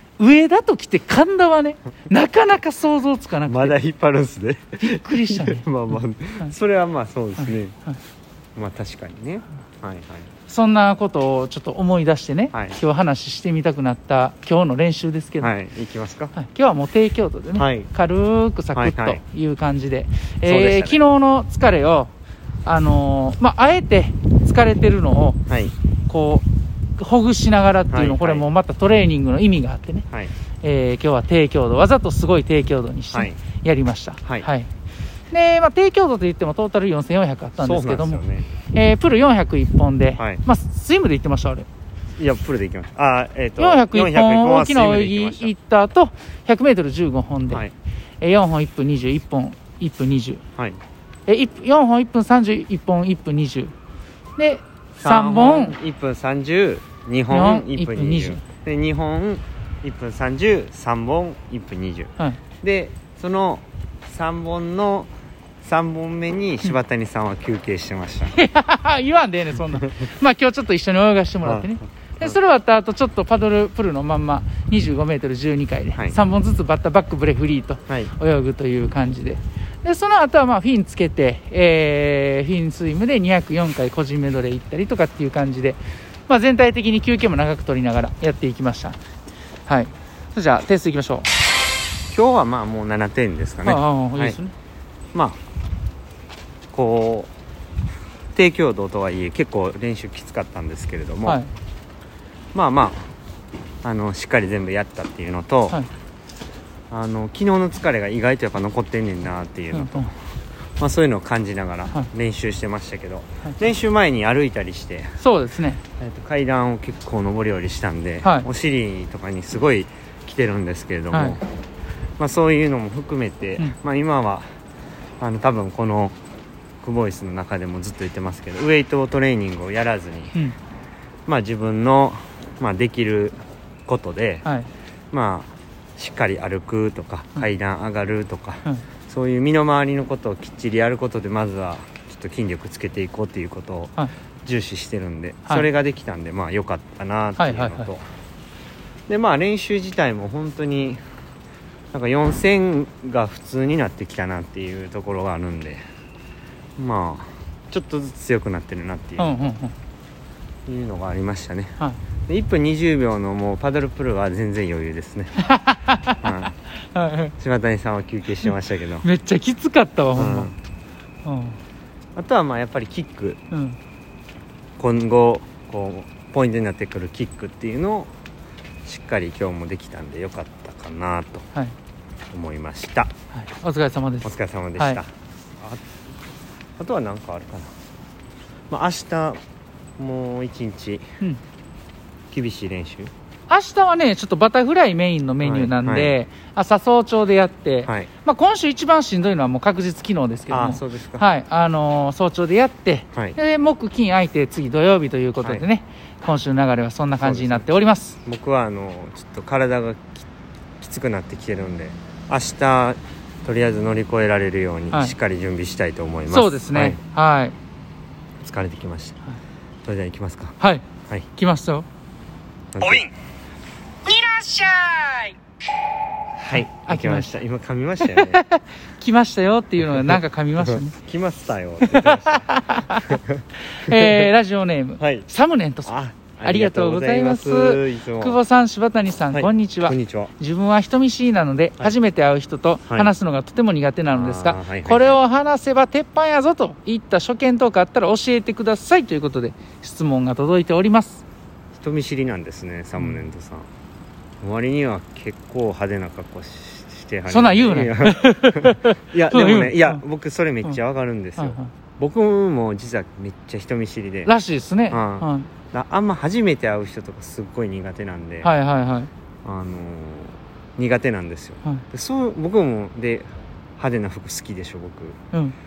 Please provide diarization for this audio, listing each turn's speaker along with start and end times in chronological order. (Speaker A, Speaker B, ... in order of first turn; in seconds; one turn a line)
Speaker A: 0.2-3.8
Speaker B: 3.5-7.8
Speaker A: 4.8-5.7
Speaker A: 7.4-8.0
Speaker B: 8.6-10.3
Speaker A: 10.5-15.5
Speaker B: 12.5-12.8
Speaker B: 15.4-16.3
Speaker A: 16.3-22.1
Speaker B: 17.6-17.9
Speaker B: 18.8-19.2
Speaker B: 20.4-21.0
Speaker A: 22.6-25.4
Speaker B: 25.5-25.7
Speaker A: 26.1-26.4
Speaker A: 27.0-30.1
Speaker B: 27.9-28.5
Speaker A: 30.6-34.7
Speaker B: 33.1-33.4
Speaker A: 35.3-41.7
Speaker B: 37.6-38.5
Speaker B: 40.2-40.4
Speaker B: 42.2-45.5
Speaker A: 43.6-47.6
Speaker B: 47.5-47.7
Speaker A: 48.2-50.4
Speaker A: 51.3-53.7
Speaker A: 54.4-55.8
Speaker B: 55.0-65.1
Speaker A: 57.3-58.4
Speaker B: 65.6-68.4
Speaker A: 68.3-89.0
Speaker B: 71.4-72.4
Speaker A: 89.7-91.3
Speaker B: 92.1-94.4
Speaker A: 93.6-94.5
Speaker B: 95.1-95.4
Speaker B: 96.7-97.3
Speaker B: 98.3-101.4
Speaker B: 102.5-103.1
Speaker B: 103.8-105.8
Speaker B: 106.9-110.1
Speaker A: 109.7-110.1
Speaker B: 110.8-115.2
Speaker A: 115.2-115.8
Speaker B: 116.0-121.4
Speaker A: 118.2-118.5
Speaker A: 121.1-121.4
Speaker B: 122.2-124.5
Speaker B: 125.2-126.2
Speaker B: 126.8-130.4
Speaker B: 131.3-134.4
Speaker B: 135.1-148.0
Speaker A: 147.4-147.9
Speaker B: 149.1-151.0
Speaker B: 151.9-155.8
Speaker B: 156.8-159.4
Speaker A: 159.2-159.7
Speaker B: 160.7-161.8
Speaker B: 162.3-165.4
Speaker A: 165.4-166.2
Speaker B: 166.2-166.6
Speaker A: 166.8-167.3
Speaker B: 167.4-169.1
Speaker A: 169.0-170.5
Speaker B: 170.2-170.6
Speaker A: 171.2-171.6
Speaker B: 172.2-173.4
Speaker A: 173.5-173.8
Speaker B: 174.8-178.1
Speaker B: 178.8-181.5
Speaker B: 182.3-183.1
Speaker A: 183.3-185.0
Speaker B: 184.2-185.8
Speaker B: 186.8-187.7
Speaker B: 188.7-189.4
Speaker B: 190.0-191.1
Speaker B: 192.3-193.1
Speaker A: 193.5-208.2
Speaker B: 195.4-196.2
Speaker B: 200.5-201.2
Speaker B: 207.2-207.7
Speaker B: 208.2-210.3
Speaker B: 210.8-217.0
Speaker A: 216.3-217.6
Speaker B: 218.4-219.2
Speaker B: 219.8-220.6
Speaker A: 220.6-220.8
Speaker A: 221.4-221.9
Speaker B: 222.7-223.1
Speaker A: 224.1-225.3
Speaker B: 226.4-228.4
Speaker A: 226.5-227.3
Speaker A: 228.0-231.0
Speaker B: 229.9-234.3
Speaker A: 231.8-233.2
Speaker A: 233.7-251.2
Speaker B: 235.0-235.3
Speaker B: 235.9-238.4
Speaker B: 239.3-240.3
Speaker B: 244.1-245.2
Speaker B: 251.8-253.7
Speaker B: 254.4-264.3
Speaker A: 257.3-260.0
Speaker A: 261.4-261.7
Speaker A: 264.3-265.5
Speaker B: 264.9-268.5
Speaker A: 268.4-269.1
Speaker B: 269.4-275.2